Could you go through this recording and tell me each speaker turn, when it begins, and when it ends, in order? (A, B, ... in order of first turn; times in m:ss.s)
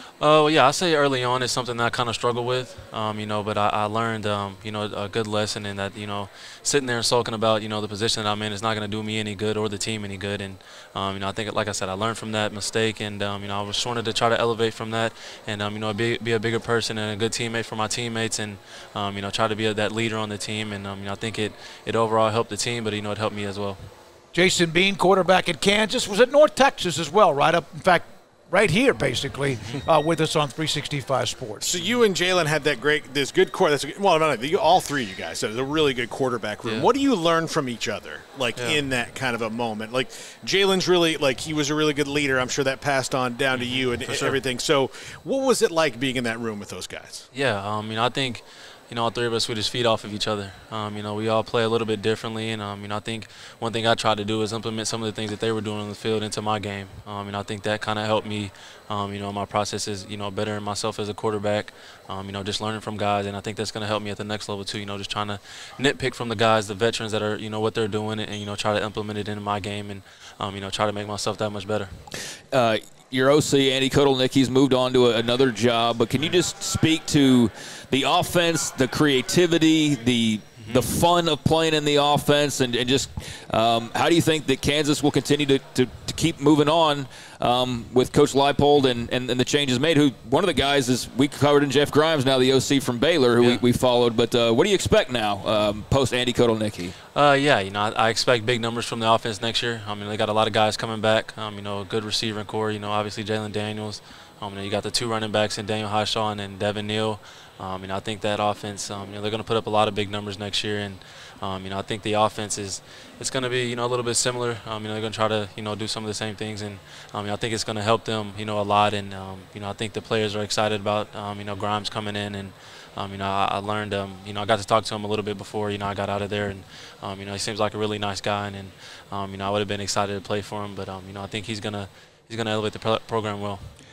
0:00.2-0:23.8 A
0:24.3-0:31.7 B
0:31.6-0:47.3 C
0:36.6-0:36.9 A
0:38.6-0:38.8 A
0:43.5-0:44.4 A
0:47.3-1:11.9 A
1:12.5-1:37.0 D
1:20.6-1:20.9 A
1:37.1-2:13.6 A